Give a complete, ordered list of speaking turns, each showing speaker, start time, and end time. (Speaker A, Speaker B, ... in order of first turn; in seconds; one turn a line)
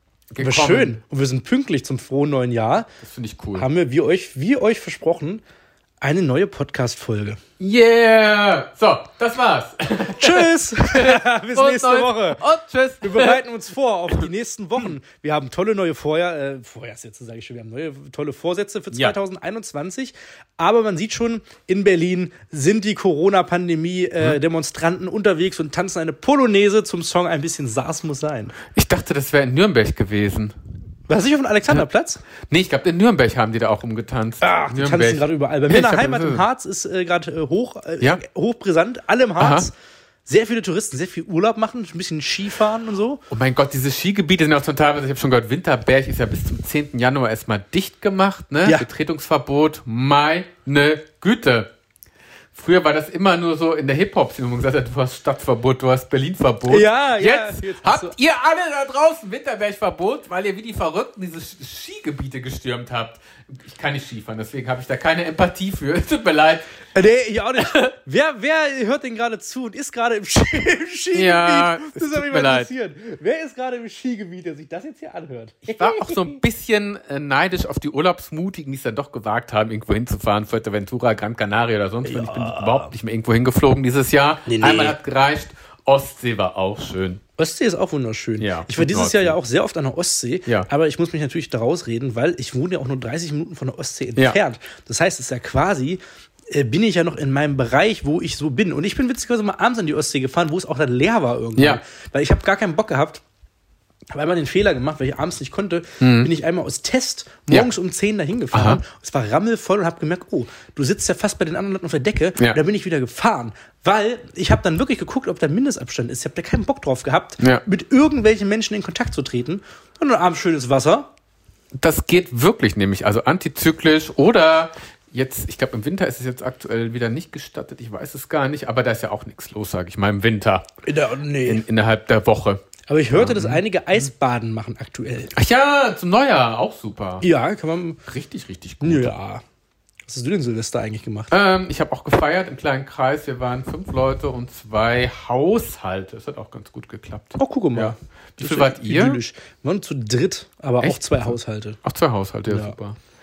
Speaker A: 0.3-1.0
Speaker B: 0.4-2.9
Speaker A: 3.0-3.7
Speaker B: 3.5-5.4
Speaker B: 6.0-7.4
Speaker A: 7.6-13.4
Speaker B: 10.1-12.4
Speaker B: 13.0-28.6
Speaker A: 28.7-30.6
Speaker B: 31.1-32.2
Speaker A: 32.5-36.5
Speaker B: 34.4-39.7
Speaker A: 39.4-39.7
Speaker B: 40.3-43.2
Speaker A: 43.3-51.7
Speaker A: 52.5-66.7
Speaker B: 56.7-58.1
Speaker B: 66.9-76.4
Speaker A: 67.6-67.9
Speaker A: 71.1-72.7
Speaker A: 75.7-87.2
Speaker B: 82.0-82.9
Speaker B: 84.5-85.0
Speaker B: 87.4-103.2
Speaker A: 88.4-89.4
Speaker B: 104.1-121.1
Speaker A: 106.0-106.3
Speaker A: 108.5-108.8
Speaker A: 117.4-117.6
Speaker A: 121.8-130.7
Speaker B: 130.8-131.7
Speaker A: 131.4-133.6
Speaker B: 132.9-135.3
Speaker A: 135.3-137.2
Speaker B: 137.2-138.0
Speaker A: 138.1-139.1
Speaker B: 138.8-139.4
Speaker B: 140.1-141.3
Speaker A: 141.3-149.2
Speaker B: 147.4-151.8
Speaker A: 150.8-153.0
Speaker B: 152.5-152.8